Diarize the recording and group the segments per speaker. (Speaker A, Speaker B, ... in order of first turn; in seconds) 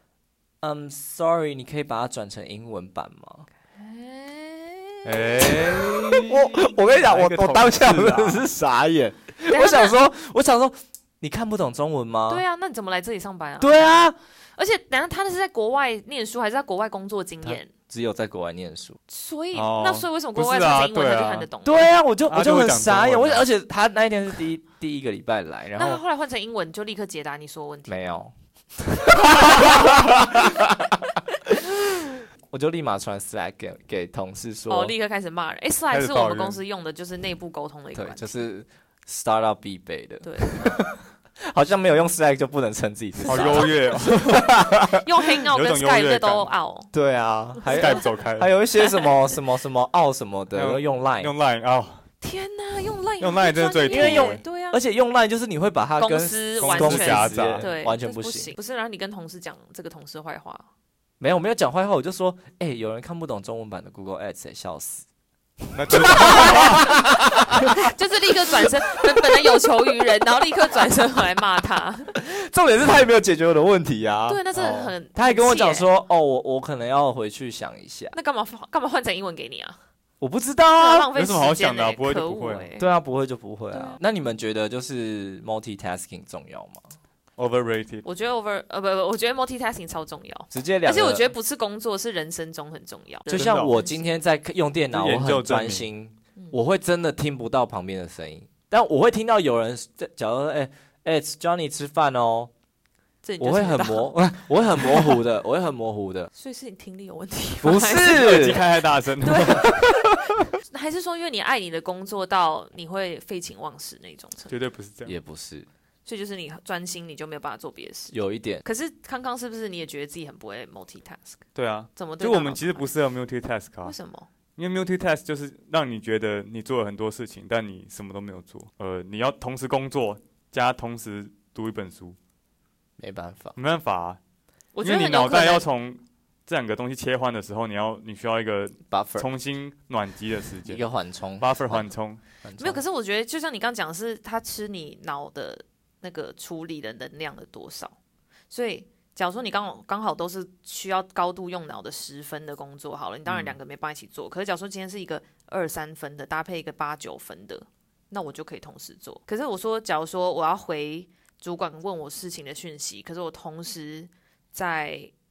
Speaker A: 0.6-3.5, 5.4-12.4, 13.6-14.2, 17.4-19.0, 21.6-26.0, 27.9-34.9, 37.9-45.0, 46.9-51.3, 53.9-58.5, 61.2-65.0, 65.7-67.9, 68.6-69.7, 72.1-74.4, 75.1-78.1, 80.2-81.1, 82.8-86.9, 90.5-91.3, 93.3-102.5, 103.4-106.3, 107.6-108.6, 115.0-115.7, 118.1-118.6, 133.0-133.6, 138.9-139.3, 140.6-141.9, 142.4-142.8
Speaker B: 3.7-5.6, 9.5-9.9, 12.3-17.7, 19.1-22.0, 25.8-28.2, 29.2-30.4, 34.7-38.4, 40.2-40.8, 43.2-43.7, 44.9-46.9, 47.6-48.0, 48.8-49.1, 52.2-54.8, 56.0-60.7, 65.9-72.1, 74.3-75.9, 78.1-79.8, 80.8-82.9, 83.7-84.0, 88.0-94.1, 103.2-104.2, 106.3-108.6, 109.2-114.6, 116.0-121.4, 122.0-122.9, 123.8-124.3, 134.8-135.7, 142.6-147.9, 148.5-165.1
Speaker C: 5.0-8.4, 19.5-21.5, 22.3-23.4, 35.9-36.6, 43.3-44.4, 45.5-46.5, 47.7-48.5, 50.5-52.0, 53.2-54.4, 56.6-57.7, 65.7-66.9, 74.5-74.9, 81.1-82.7, 87.4-88.0, 93.3-93.8, 94.9-95.8, 107.9-109.7, 114.5-115.2, 121.5-123.9, 124.5-132.2, 133.6-134.2, 134.8-140.8, 141.4-142.2, 153.3-153.5